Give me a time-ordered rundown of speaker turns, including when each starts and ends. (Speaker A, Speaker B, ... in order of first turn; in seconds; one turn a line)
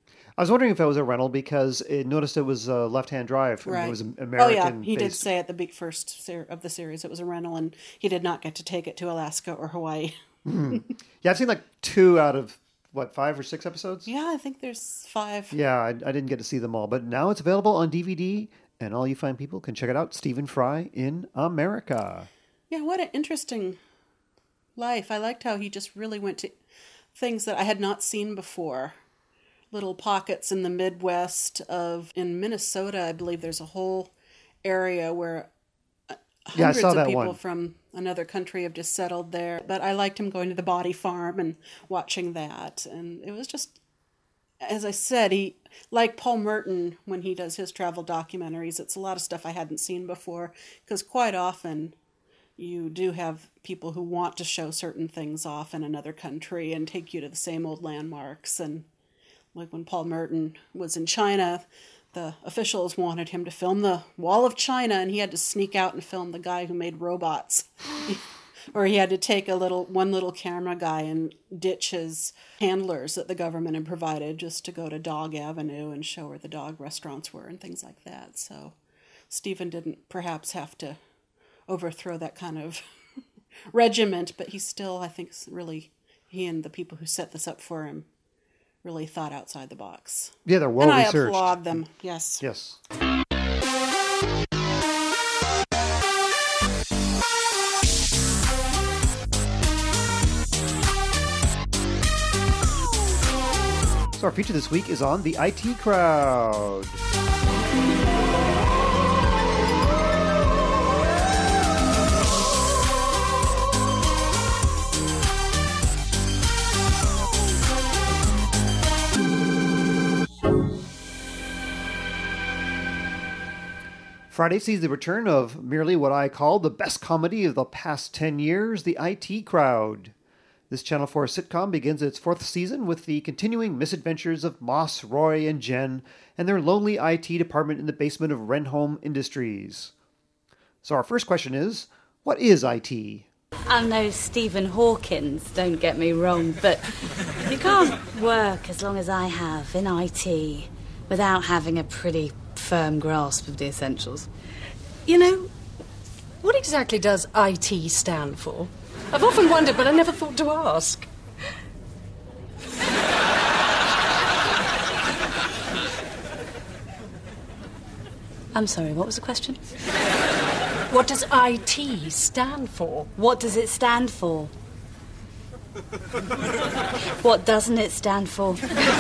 Speaker A: 0.4-5.3
Speaker B: 3.6-10.1
Speaker A: 10.4-14.1
Speaker B: 14.1-15.6
Speaker A: 15.5-22.3
Speaker B: 22.7-23.8
Speaker B: 24.8-26.6
Speaker B: 27.1-28.9
Speaker B: 29.7-34.1
Speaker B: 34.6-35.5
Speaker B: 36.1-43.8
Speaker A: 36.5-37.4
Speaker B: 44.6-51.9
Speaker B: 52.6-58.9
Speaker B: 59.5-78.7
Speaker B: 79.3-81.0
Speaker B: 81.7-82.8
Speaker B: 83.7-88.1
Speaker B: 88.8-92.4
Speaker A: 90.5-91.8
Speaker A: 92.4-92.8
Speaker A: 104.1-107.0
Speaker A: 124.3-130.1
Speaker A: 130.7-139.9
Speaker A: 140.8-143.3
Speaker C: 143.7-154.3
Speaker D: 155.1-155.5
Speaker D: 156.4-161.1
Speaker C: 168.5-169.6
Speaker D: 170.9-173.1
Speaker C: 173.2-174.5
Speaker C: 177.2-178.6